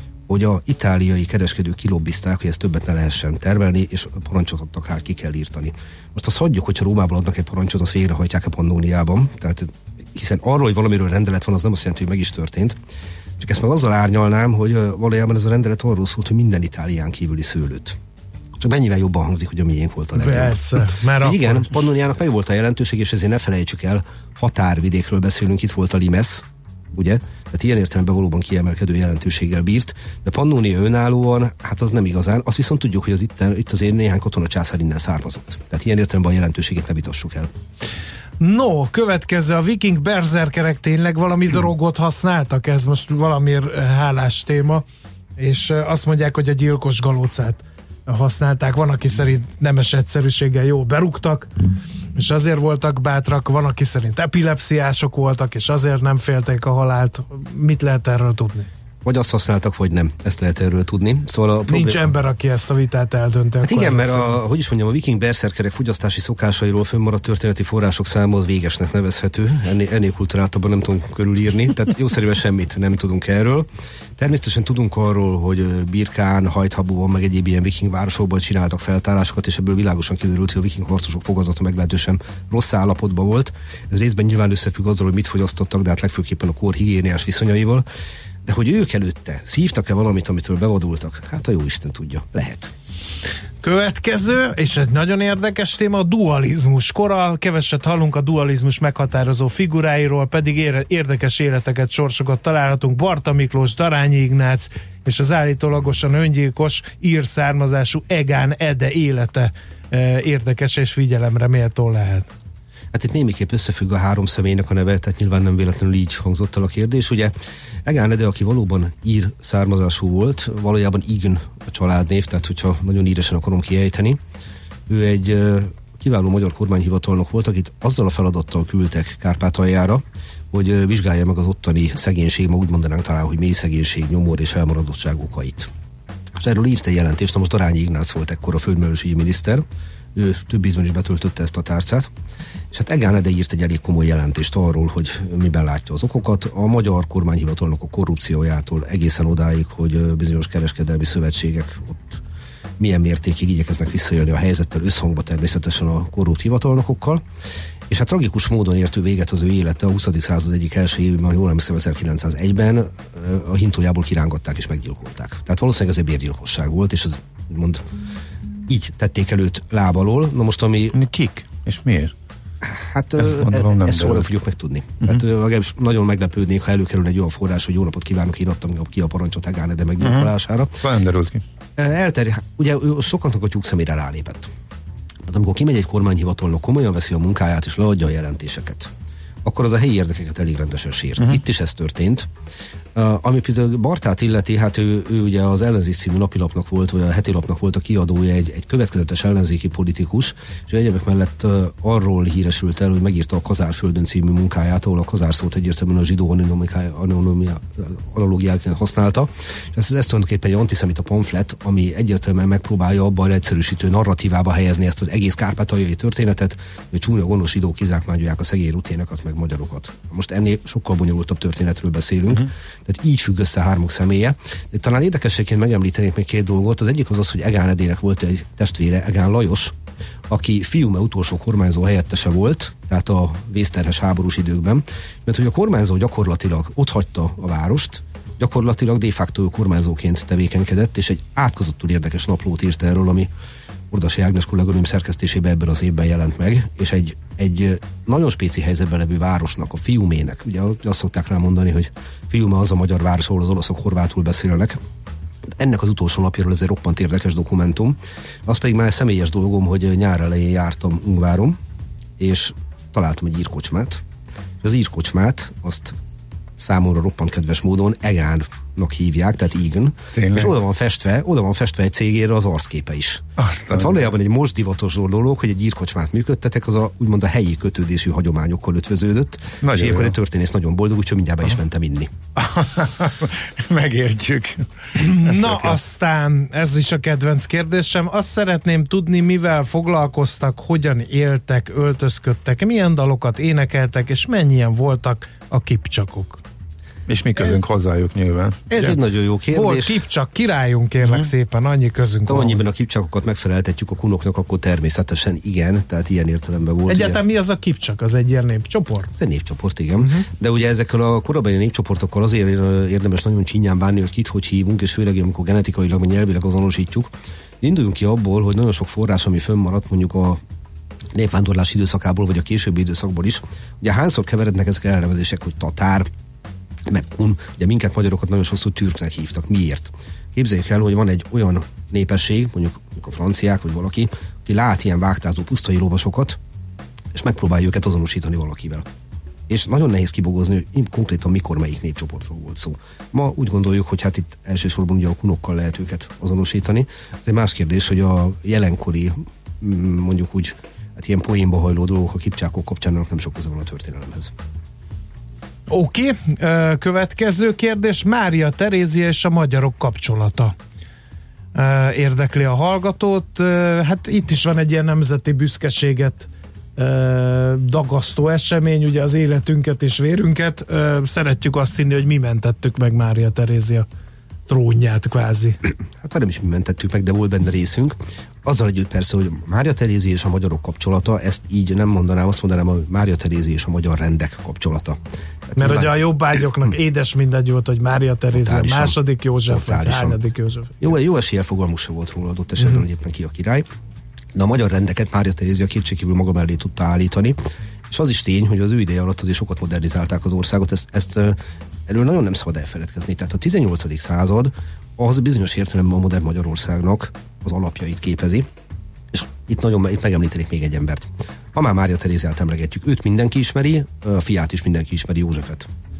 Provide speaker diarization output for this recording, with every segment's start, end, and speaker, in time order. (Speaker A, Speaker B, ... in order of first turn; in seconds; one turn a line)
Speaker A: 0.3-12.8
Speaker A: 13.4-18.0
Speaker A: 18.6-37.5
Speaker B: 20.1-21.7
Speaker B: 38.4-44.8
Speaker B: 45.4-51.5
Speaker B: 52.1-58.7
Speaker A: 59.0-62.1
Speaker B: 61.7-64.4
Speaker A: 63.6-87.8
Speaker A: 88.4-92.7
Speaker B: 93.6-112.3
Speaker A: 112.9-117.3
Speaker A: 117.8-124.2
Speaker A: 124.9-135.7
Speaker A: 136.3-142.1
Speaker A: 142.7-152.2
Speaker A: 152.8-157.2
Speaker A: 157.9-167.8
Speaker A: 168.7-170.9
Speaker C: 170.9-172.1
Speaker A: 172.6-180.8
Speaker C: 173.2-174.3
Speaker C: 180.0-180.3
Speaker C: 180.8-181.4
Speaker A: 181.8-184.5
Speaker A: 185.3-188.9
Speaker A: 189.4-192.3
Speaker A: 192.9-229.8
Speaker A: 230.3-243.3
Speaker A: 243.9-254.8
Speaker A: 255.6-261.6
Speaker A: 262.2-264.0
Speaker A: 264.6-265.9
Speaker A: 266.6-282.1
Speaker C: 270.1-270.5
Speaker C: 273.4-274.0
Speaker C: 279.6-280.1
Speaker C: 282.4-285.8
Speaker B: 284.9-296.4
Speaker C: 297.1-298.6
Speaker A: 298.7-300.0
Speaker B: 299.5-302.6
Speaker C: 301.0-301.3
Speaker A: 302.3-307.2
Speaker B: 306.9-309.1
Speaker A: 309.1-320.4
Speaker B: 310.0-310.2
Speaker A: 321.1-326.1
Speaker A: 326.9-336.4
Speaker A: 337.1-338.8
Speaker A: 339.5-354.3
Speaker B: 355.7-360.5
Speaker B: 361.5-373.9
Speaker B: 374.5-375.6
Speaker A: 376.0-386.1
Speaker B: 385.6-390.8
Speaker A: 388.3-390.2
Speaker A: 390.8-393.6
Speaker A: 394.3-397.4
Speaker A: 397.9-408.5
Speaker A: 409.1-415.7